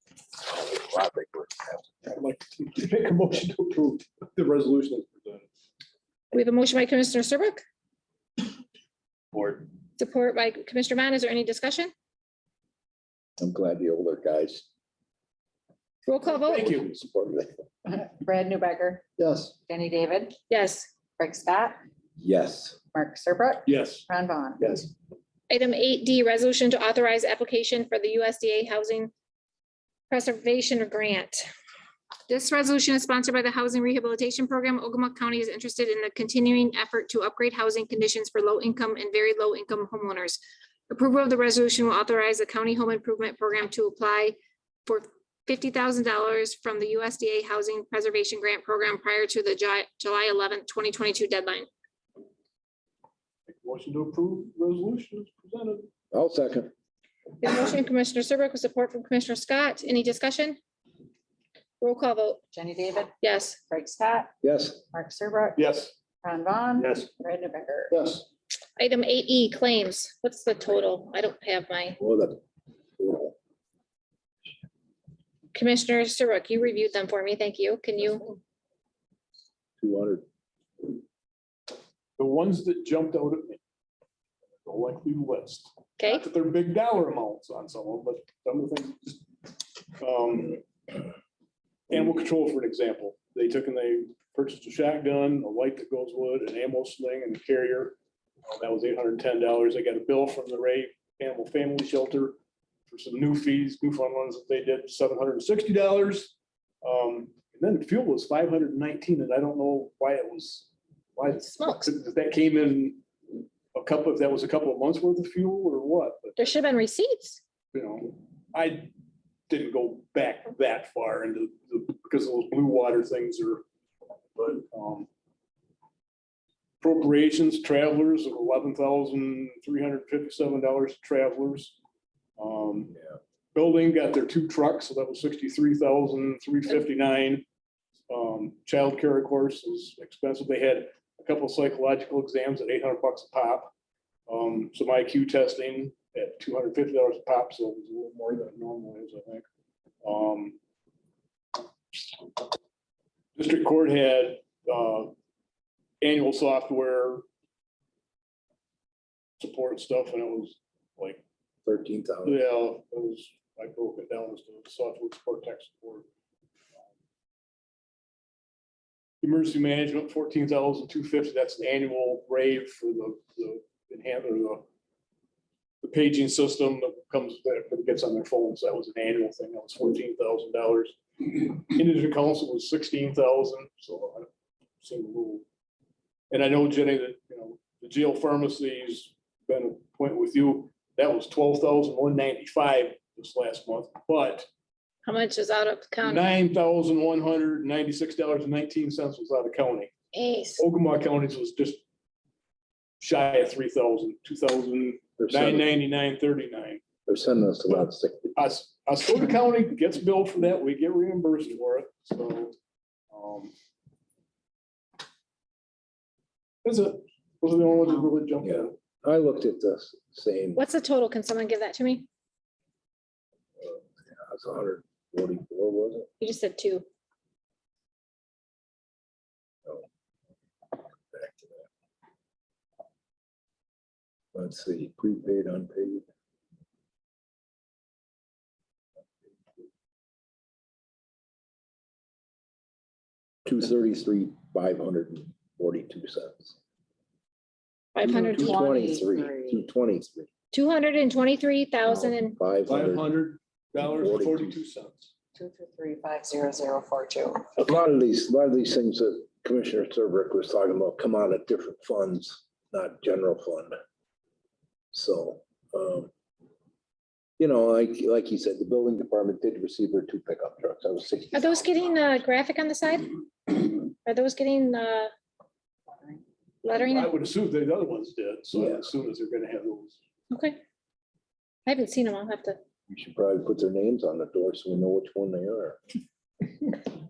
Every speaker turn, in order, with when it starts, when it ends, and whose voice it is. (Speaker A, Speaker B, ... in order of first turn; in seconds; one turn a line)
Speaker A: 0.5-1.9
Speaker B: 2.1-5.5
Speaker C: 6.3-7.6
Speaker B: 9.3-9.7
Speaker C: 10.0-11.9
Speaker A: 13.4-14.7
Speaker C: 16.1-16.7
Speaker A: 16.3-17.6
Speaker B: 16.4-16.9
Speaker D: 17.9-19.1
Speaker D: 19.7-20.4
Speaker C: 20.5-20.9
Speaker D: 21.2-21.8
Speaker A: 22.2-22.8
Speaker D: 22.9-24.9
Speaker B: 23.7-24.0
Speaker C: 25.5-29.1
Speaker C: 30.1-31.5
Speaker C: 32.3-51.7
Speaker B: 53.5-55.9
Speaker A: 56.1-56.7
Speaker C: 57.4-60.6
Speaker C: 61.8-62.4
Speaker D: 62.5-63.1
Speaker C: 63.2-63.6
Speaker D: 63.7-64.3
Speaker A: 64.4-64.8
Speaker D: 64.9-65.6
Speaker B: 65.6-65.9
Speaker D: 66.2-68.0
Speaker B: 66.8-67.1
Speaker B: 67.9-68.2
Speaker C: 68.8-72.0
Speaker A: 72.0-72.4
Speaker A: 73.0-73.4
Speaker C: 75.5-78.4
Speaker A: 79.8-80.2
Speaker B: 82.2-83.6
Speaker B: 84.6-90.6
Speaker C: 86.0-86.2
Speaker B: 91.9-102.4
Speaker B: 102.9-116.5
Speaker C: 111.6-111.9
Speaker C: 116.4-117.4
Speaker B: 117.7-118.9
Speaker B: 119.5-123.6
Speaker B: 124.4-125.1
Speaker B: 126.8-131.8
Speaker B: 132.4-133.0
Speaker B: 133.6-137.5
Speaker B: 138.1-143.7
Speaker B: 144.3-149.5
Speaker B: 150.0-150.6
Speaker B: 151.9-152.5
Speaker B: 153.4-155.1
Speaker B: 156.0-157.2
Speaker B: 159.4-161.2
Speaker A: 161.7-162.4
Speaker B: 162.2-166.1
Speaker B: 169.2-174.7
Speaker B: 175.8-184.3
Speaker B: 184.8-185.4
Speaker B: 186.3-194.5
Speaker C: 195.1-196.3
Speaker B: 196.0-199.9
Speaker C: 200.1-200.6
Speaker B: 200.6-201.8
Speaker B: 203.0-206.8
Speaker A: 205.2-205.7
Speaker A: 207.1-208.3
Speaker B: 207.7-212.6
Speaker B: 213.1-213.5
Speaker B: 216.6-218.8
Speaker A: 218.4-220.6
Speaker C: 220.6-222.1
Speaker A: 223.6-226.1
Speaker C: 226.2-226.8
Speaker A: 231.1-231.7
Speaker A: 234.3-236.1
Speaker A: 243.4-246.6
Speaker C: 247.9-248.6
Speaker D: 248.1-249.7
Speaker A: 248.1-250.3
Speaker C: 250.5-252.4
Speaker A: 251.9-253.1
Speaker B: 252.7-255.1
Speaker A: 253.8-254.6
Speaker D: 255.3-257.5
Speaker A: 257.6-263.8
Speaker A: 264.9-266.1
Speaker A: 267.4-271.8
Speaker C: 271.3-275.1
Speaker C: 276.6-277.1
Speaker B: 276.7-280.0
Speaker C: 280.3-280.6
Speaker C: 281.7-282.6
Speaker A: 282.9-285.8